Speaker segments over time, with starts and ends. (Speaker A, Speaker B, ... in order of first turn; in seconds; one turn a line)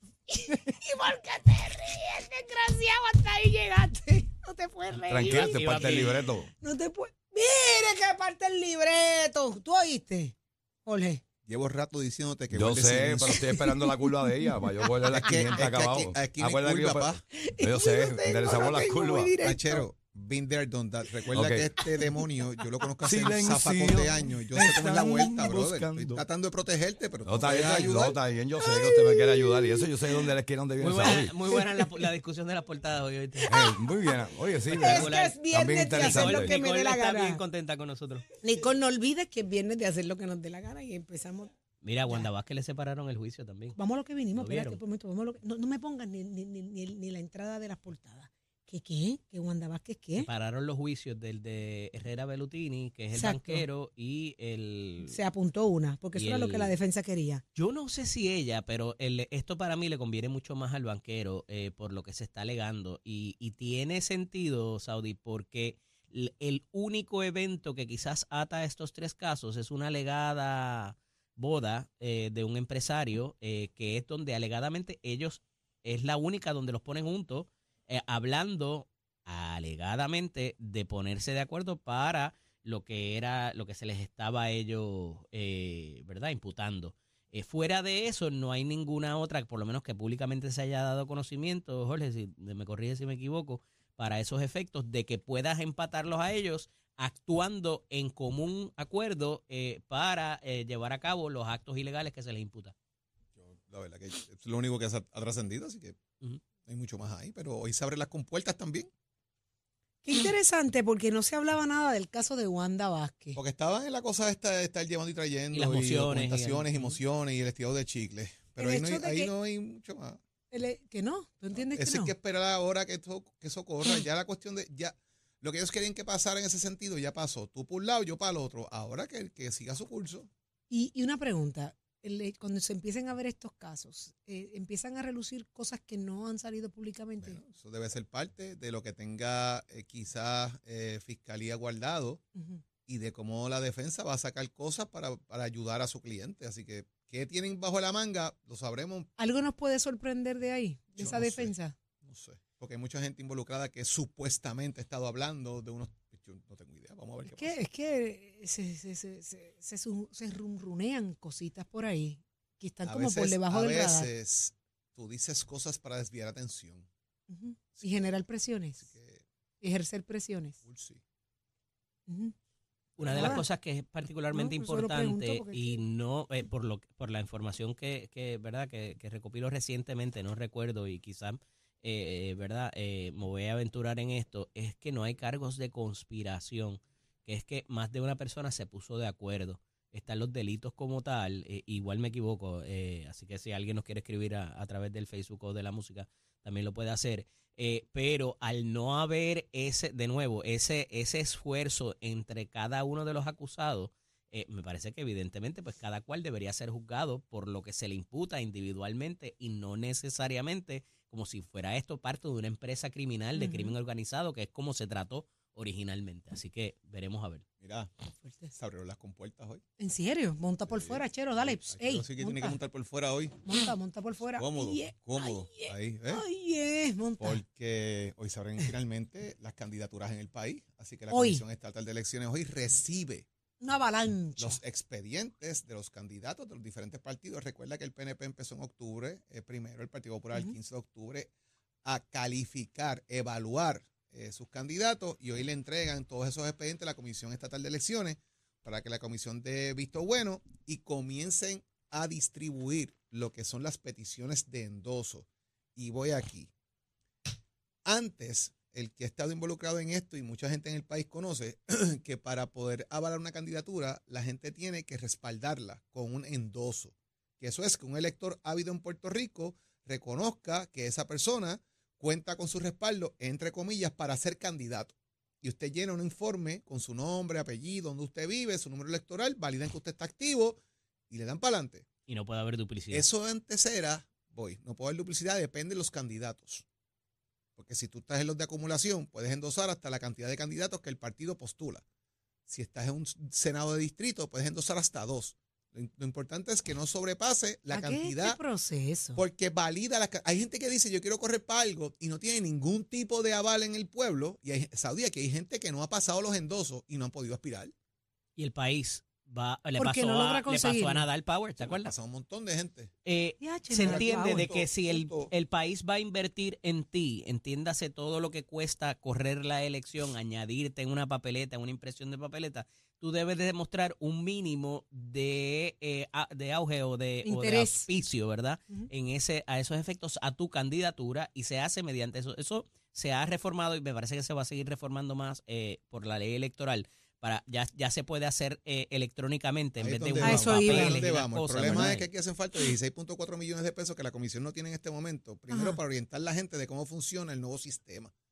Speaker A: 0.3-5.6
Speaker B: 4.9-6.3
Speaker C: 5.1-6.5
Speaker A: 6.6-11.2
Speaker D: 11.5-13.4
Speaker C: 12.5-19.4
Speaker A: 13.3-15.5
Speaker D: 15.1-17.2
Speaker A: 17.3-19.9
Speaker D: 19.4-28.2
Speaker C: 21.3-21.7
Speaker A: 21.8-22.3
Speaker C: 23.0-26.2
Speaker C: 27.2-31.4
Speaker A: 28.6-30.3
Speaker B: 30.8-33.5
Speaker A: 31.5-32.1
Speaker A: 33.5-33.8
Speaker C: 33.5-36.5
Speaker B: 34.7-38.2
Speaker A: 34.8-37.4
Speaker A: 38.4-41.5
Speaker B: 41.8-43.8
Speaker A: 43.8-50.3
Speaker B: 44.4-44.8
Speaker B: 50.2-55.2
Speaker A: 53.1-53.6
Speaker A: 55.1-57.4
Speaker B: 56.1-56.7
Speaker B: 57.5-102.8
Speaker D: 103.4-106.0
Speaker D: 106.7-108.9
Speaker A: 110.0-113.4
Speaker D: 113.4-120.2
Speaker B: 115.5-117.0
Speaker A: 118.6-119.3
Speaker A: 120.5-122.1
Speaker D: 121.5-130.3
Speaker A: 130.7-137.4
Speaker D: 137.2-142.2
Speaker A: 142.4-142.6
Speaker D: 142.9-149.1
Speaker A: 149.2-151.7
Speaker D: 151.0-151.5
Speaker D: 152.0-157.6
Speaker A: 157.2-164.1
Speaker D: 162.8-166.9
Speaker A: 167.3-168.8
Speaker D: 167.8-168.1
Speaker D: 168.8-169.2
Speaker A: 169.6-170.6
Speaker D: 170.6-171.0
Speaker A: 172.1-172.3
Speaker B: 173.0-217.4
Speaker D: 173.0-173.4
Speaker A: 173.1-173.4
Speaker A: 174.3-175.8
Speaker A: 213.3-213.7
Speaker D: 217.6-217.9
Speaker A: 218.1-218.5
Speaker D: 218.5-219.6
Speaker A: 219.8-222.6
Speaker D: 220.7-223.4
Speaker A: 223.4-227.4
Speaker D: 224.4-226.2
Speaker D: 227.2-233.3
Speaker A: 231.1-231.4
Speaker A: 233.6-234.6
Speaker D: 234.4-241.3
Speaker D: 241.8-256.5
Speaker D: 257.9-281.9
Speaker B: 282.1-283.1
Speaker D: 282.9-286.6
Speaker D: 287.6-291.8
Speaker D: 292.5-298.4
Speaker A: 297.7-299.2
Speaker D: 299.1-307.7
Speaker B: 308.4-311.9
Speaker A: 309.8-311.1
Speaker D: 311.6-312.9
Speaker B: 313.1-342.1
Speaker A: 313.4-314.6
Speaker D: 313.8-315.3
Speaker A: 327.2-327.9
Speaker D: 339.8-348.1
Speaker A: 340.2-341.0
Speaker A: 341.6-341.9
Speaker A: 345.5-345.8